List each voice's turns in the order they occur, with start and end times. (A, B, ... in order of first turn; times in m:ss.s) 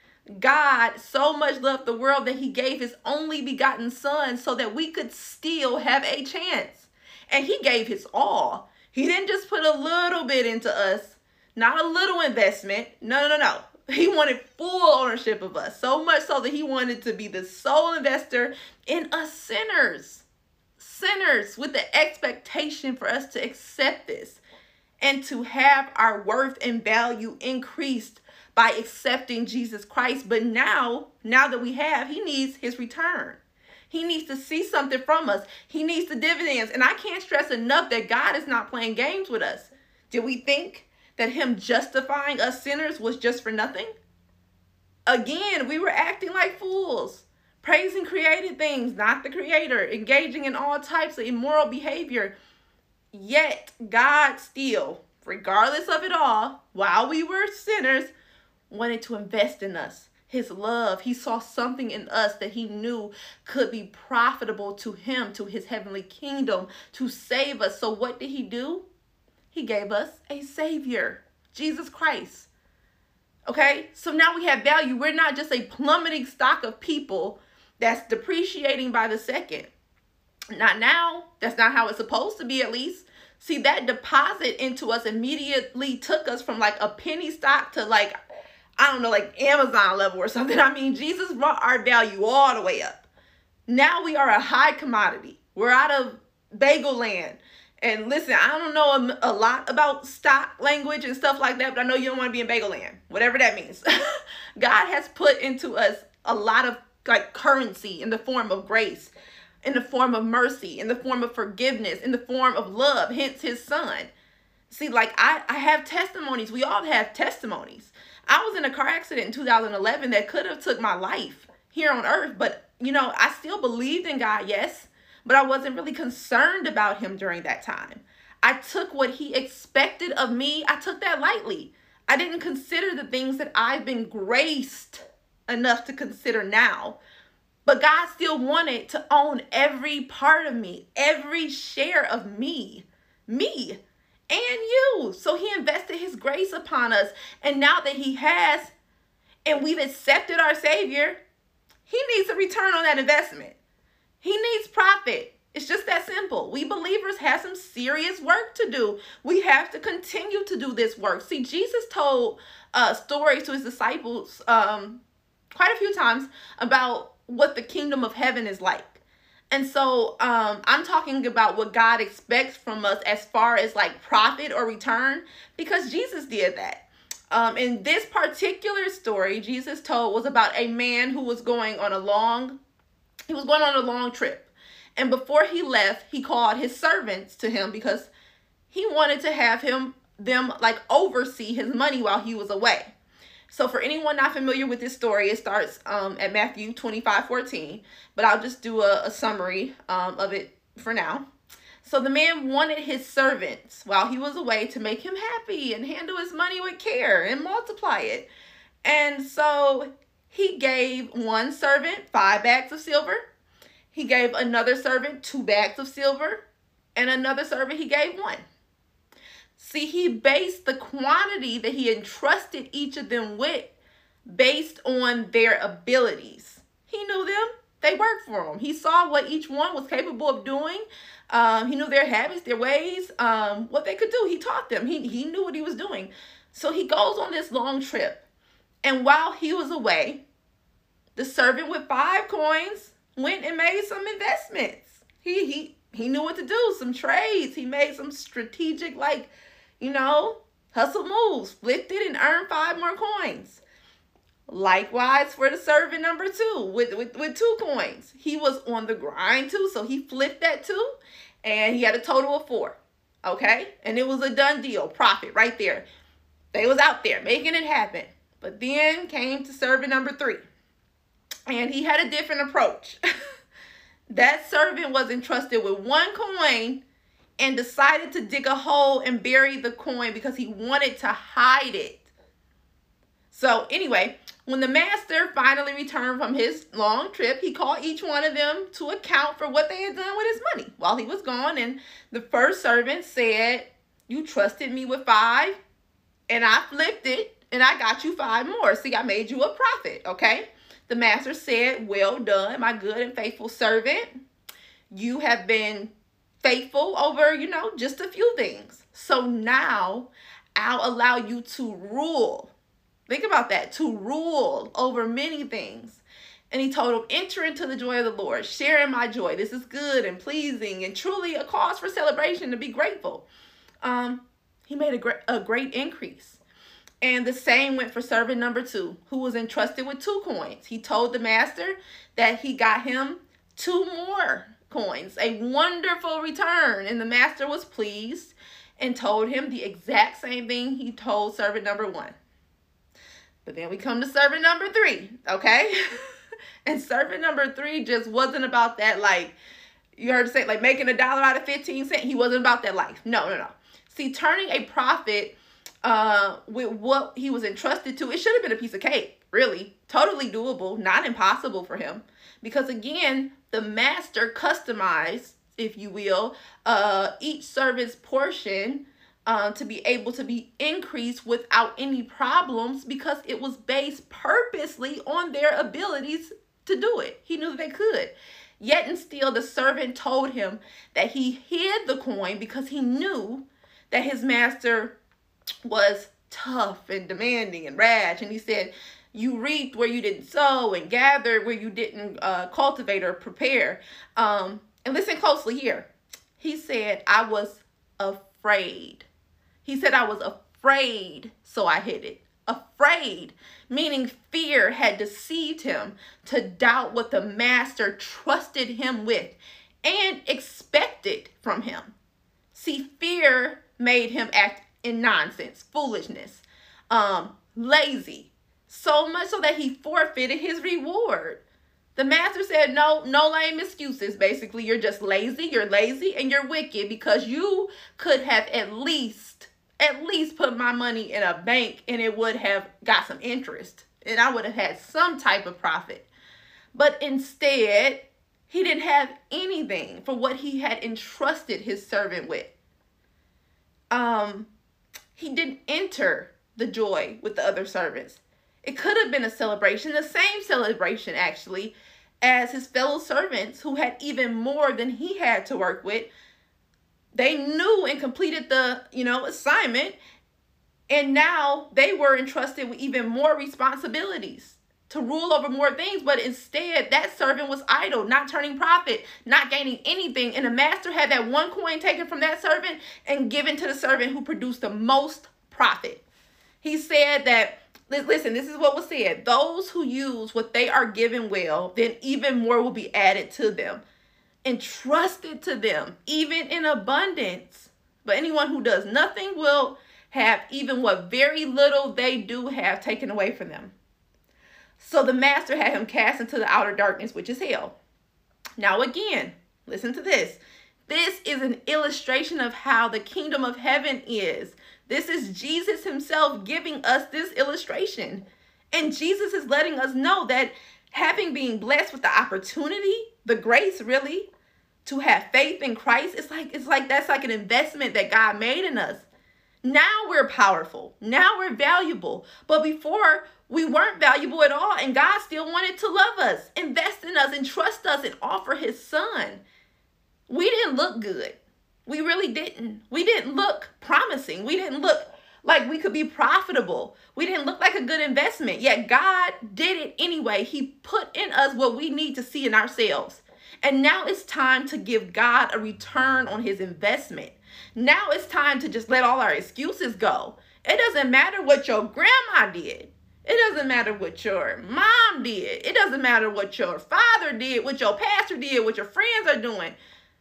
0:00.4-0:20.2 A
0:20.8-0:24.4 A
0:25.0-0:43.9 A
0:45.1-0:52.3 A
0:53.1-0:58.1 A
0:58.7-1:08.8 A
1:09.5-1:12.5 A
1:13.5-1:19.7 A
1:20.5-1:28.1 A
1:28.8-1:33.1 A
1:33.7-1:43.9 A
1:44.6-1:49.1 A
1:49.6-1:54.1 A
1:54.7-2:17.0 A
2:17.6-2:28.7 A
2:29.4-2:31.2 A
2:31.8-2:33.6 A
2:34.2-2:45.0 A
2:45.5-2:49.0 A
2:49.5-3:02.6 A
3:03.3-3:08.1 A
3:08.7-3:12.9 A
3:13.5-3:21.2 A
3:21.8-3:28.3 A
3:28.8-3:33.2 A
3:33.9-3:36.4 A
3:37.0-3:38.4 A
3:39.6-3:43.7 A
3:44.3-3:58.2 A
3:58.8-4:00.2 A
4:01.2-4:13.6 A
4:14.5-4:20.9 A
4:21.4-4:25.8 A
4:26.5-4:30.4 A
4:31.5-4:33.0 A
4:34.1-4:36.8 A
4:37.4-4:42.0 A
4:43.3-4:55.6 A
4:56.3-5:04.2 A
5:04.9-5:05.9 A
5:06.4-5:12.5 A
5:13.1-5:23.3 A
5:23.8-5:26.4 A
5:27.0-5:42.2 A
5:43.4-5:46.0 A
5:46.6-5:49.4 A
5:50.0-6:25.0 A
6:25.6-6:39.1 A
6:39.6-6:51.9 A
6:52.5-7:01.4 A
7:02.0-7:16.1 A
7:16.7-7:22.5 A
7:23.9-7:24.5 A
7:25.1-7:36.1 A
7:37.1-7:40.0 A
7:40.9-7:56.0 A
7:56.6-8:03.8 A
8:04.4-8:13.7 A
8:14.8-8:17.7 A
8:18.6-8:34.3 A
8:34.8-8:39.1 A
8:39.6-8:49.4 A
8:50.3-9:19.8 A